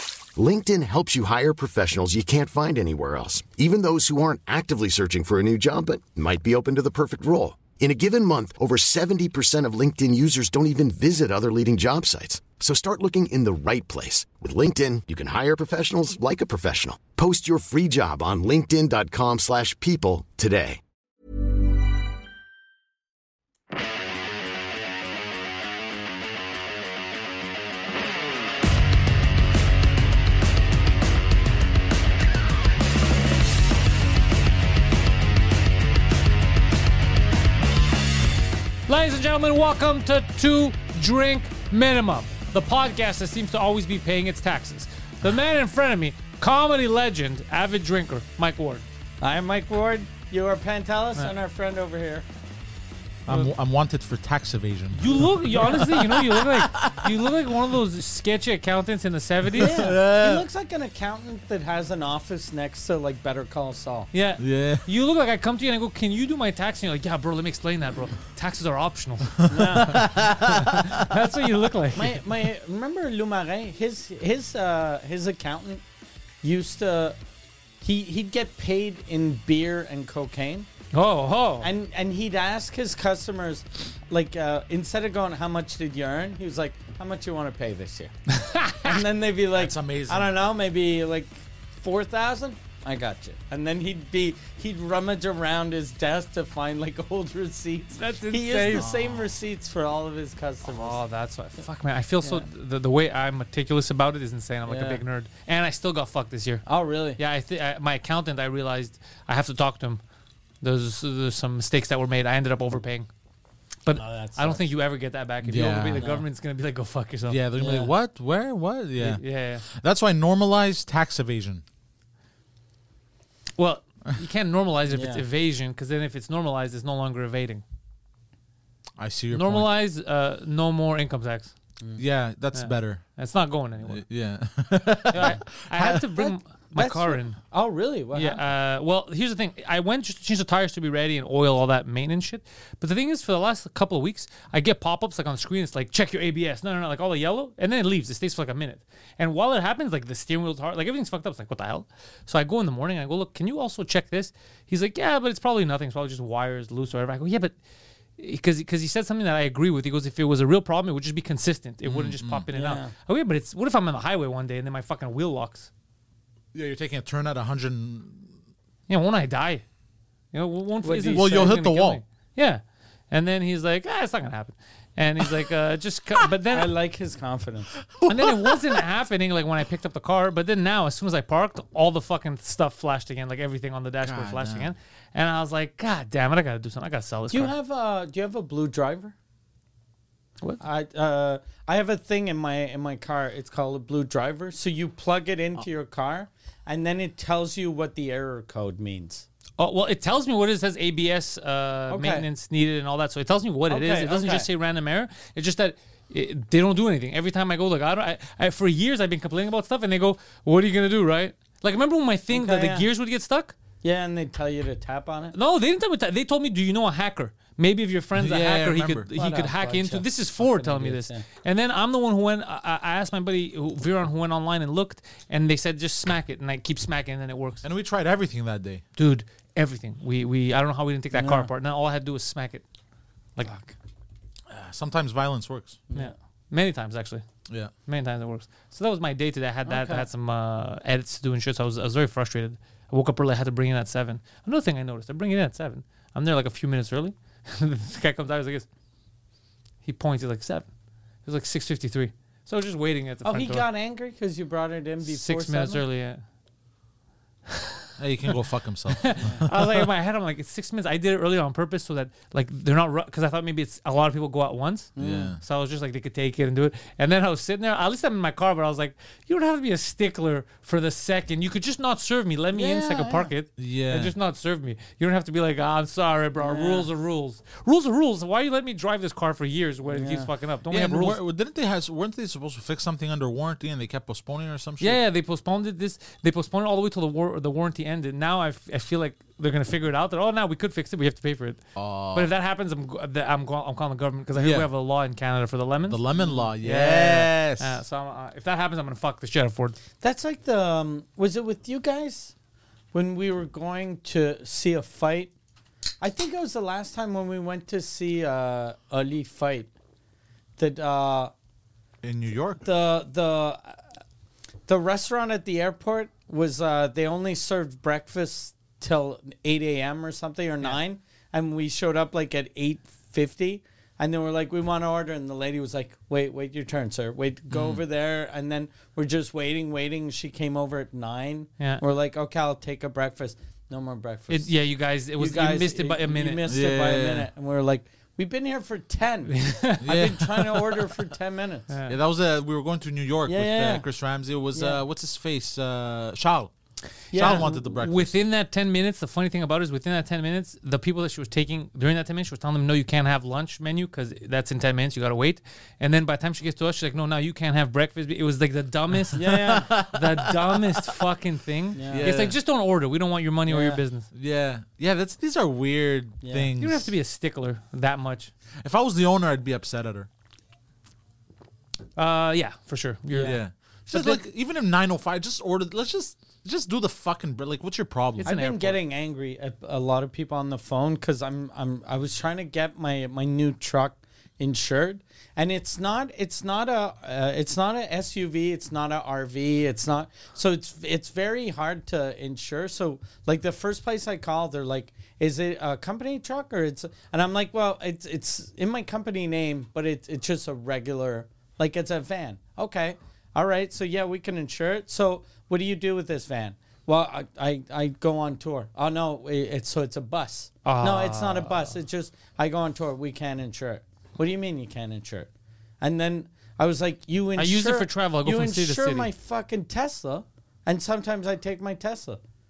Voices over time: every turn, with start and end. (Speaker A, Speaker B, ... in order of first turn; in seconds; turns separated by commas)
Speaker A: 0.3-20.8, Speaker B: 38.9-48.8, Speaker C: 49.2-52.3, Speaker D: 53.3-57.3, Speaker B: 55.0-59.9, Speaker D: 59.5-60.5, Speaker C: 59.6-64.1, Speaker B: 64.1-72.2, Speaker D: 64.4-64.9, Speaker D: 69.4-71.2, Speaker C: 69.5-70.0, Speaker C: 72.0-75.8, Speaker C: 76.4-77.2, Speaker C: 77.8-80.7, Speaker B: 80.9-81.7, Speaker C: 81.6-88.1, Speaker B: 88.3-89.0, Speaker C: 88.8-101.0, Speaker D: 89.6-90.3, Speaker B: 98.0-98.9, Speaker D: 98.8-99.3, Speaker B: 100.7-106.6, Speaker C: 104.7-105.0, Speaker C: 106.7-107.2, Speaker B: 107.2-110.0, Speaker B: 110.6-113.1, Speaker B: 113.8-117.4, Speaker C: 113.9-114.7, Speaker D: 115.4-116.1, Speaker C: 116.0-116.2, Speaker D: 117.3-121.6, Speaker C: 117.6-117.9, Speaker B: 119.0-119.7, Speaker B: 123.6-127.6, Speaker C: 124.9-125.2, Speaker D: 129.0-129.7, Speaker B: 129.3-131.5, Speaker D: 132.0-133.0, Speaker B: 132.5-134.0, Speaker D: 133.8-136.0, Speaker B: 135.1-137.4, Speaker C: 135.2-138.4, Speaker B: 138.1-157.6, Speaker B: 158.2-165.7, Speaker D: 161.8-162.5, Speaker C: 162.5-162.9, Speaker D: 166.5-168.3, Speaker B: 168.9-169.6, Speaker B: 170.3-176.7, Speaker C: 170.8-171.6, Speaker D: 171.1-172.0, Speaker C: 176.5-177.7, Speaker D: 177.8-178.8, Speaker B: 178.1-187.5, Speaker D: 184.0-184.7, Speaker C: 187.3-189.2, Speaker C: 190.6-199.3, Speaker B: 199.6-213.6, Speaker C: 201.9-202.3, Speaker C: 203.7-204.5, Speaker C: 212.3-212.9, Speaker C: 213.8-215.3, Speaker B: 215.3-227.6, Speaker D: 218.2-219.1, Speaker C: 219.1-221.2, Speaker D: 227.6-228.8, Speaker B: 229.0-232.6, Speaker C: 231.1-231.5, Speaker C: 233.4-233.8, Speaker D: 234.5-235.8, Speaker B: 235.9-237.2, Speaker B: 237.9-248.7, Speaker C: 239.7-240.1, Speaker B: 249.8-250.7, Speaker B: 251.2-253.7, Speaker C: 253.2-255.8, Speaker B: 255.1-256.2, Speaker B: 257.5-258.3, Speaker D: 258.0-259.9, Speaker B: 258.9-281.2, Speaker C: 259.2-259.4, Speaker C: 265.0-265.3, Speaker D: 265.0-265.4, Speaker C: 272.5-273.3, Speaker D: 273.6-274.1, Speaker C: 276.4-276.9, Speaker C: 279.9-280.3, Speaker D: 280.7-285.0, Speaker B: 284.8-291.6, Speaker D: 291.8-292.3, Speaker B: 292.1-296.0, Speaker D: 294.4-294.7, Speaker D: 295.9-297.8, Speaker C: 296.2-296.5, Speaker B: 296.6-299.8, Speaker C: 300.0-302.3, Speaker C: 302.9-305.3, Speaker C: 306.0-309.7, Speaker C: 310.6-311.3, Speaker D: 312.0-312.6, Speaker C: 312.6-313.8, Speaker C: 314.7-334.5, Speaker D: 327.5-327.8, Speaker B: 334.3-336.4, Speaker C: 335.2-341.7, Speaker D: 336.5-337.3, Speaker B: 339.3-339.8, Speaker D: 339.8-340.9, Speaker B: 341.7-342.0, Speaker D: 341.9-346.5, Speaker C: 343.3-343.9, Speaker C: 344.5-344.8, Speaker C: 347.1-347.7, Speaker D: 347.1-348.2, Speaker B: 347.2-364.1, Speaker D: 359.1-361.0, Speaker C: 359.1-359.7, Speaker C: 361.8-362.1, Speaker D: 361.8-362.4, Speaker C: 363.5-363.8, Speaker D: 364.1-366.9, Speaker C: 366.2-366.5, Speaker B: 366.6-368.3, Speaker D: 368.6-370.1, Speaker B: 372.0-374.2, Speaker C: 373.1-373.4, Speaker D: 373.2-378.3, Speaker B: 378.2-378.8, Speaker C: 378.3-415.3, Speaker B: 410.6-411.7, Speaker C: 415.8-422.2, Speaker B: 417.4-419.1